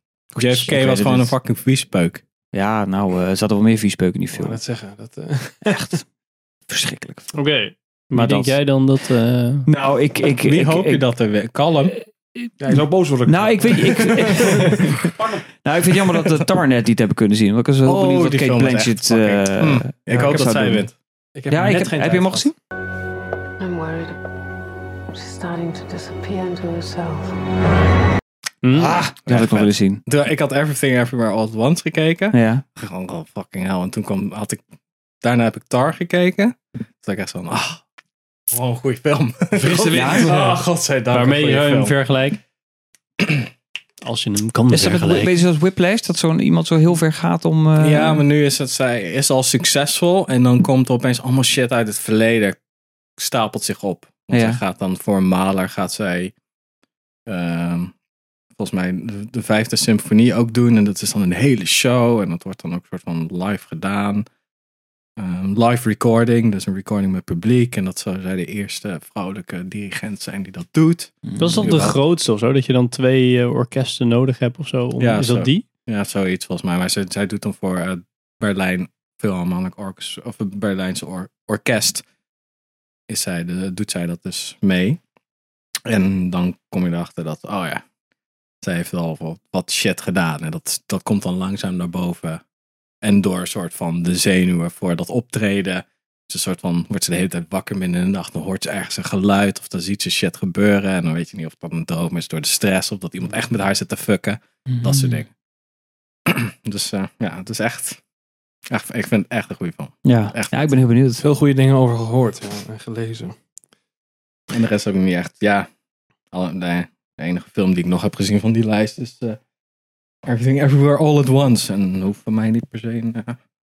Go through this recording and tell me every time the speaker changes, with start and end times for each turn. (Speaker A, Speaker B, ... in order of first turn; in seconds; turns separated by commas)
Speaker A: 0.3-1.3, Speaker B: 0.3-2.2, Speaker A: 2.5-4.6, Speaker C: 4.3-5.7, Speaker A: 5.7-6.0, Speaker A: 6.7-7.4, Speaker D: 7.3-9.7, Speaker A: 8.1-8.6, Speaker A: 9.7-11.1, Speaker B: 10.4-11.9, Speaker C: 12.6-14.8, Speaker A: 13.2-20.9, Speaker B: 17.8-20.9, Speaker C: 21.3-22.5, Speaker A: 21.5-22.5, Speaker E: 23.6-24.1, Speaker E: 25.2-27.2, Speaker D: 28.6-29.0, Speaker A: 28.7-30.0, Speaker B: 29.2-34.6, Speaker A: 32.3-32.6, Speaker B: 35.2-37.8, Speaker B: 38.5-41.9, Speaker C: 39.5-40.6, Speaker A: 39.9-40.3, Speaker D: 41.1-42.4, Speaker D: 44.0-45.4, Speaker A: 44.7-48.2, Speaker B: 47.8-52.6, Speaker B: 53.2-56.3, Speaker A: 54.3-54.6, Speaker B: 57.3-57.9, Speaker B: 58.6-64.2, Speaker B: 65.2-71.9, Speaker A: 71.2-71.8, Speaker D: 71.4-75.6, Speaker B: 75.0-82.0, Speaker B: 83.1-85.0, Speaker B: 85.8-87.8, Speaker B: 88.6-92.4, Speaker B: 93.0-105.3, Speaker A: 104.7-105.2, Speaker B: 106.2-108.0, Speaker B: 108.7-110.6, Speaker A: 110.0-111.2, Speaker C: 111.2-113.3, Speaker B: 114.5-115.7, Speaker B: 116.3-119.4, Speaker B: 120.2-123.4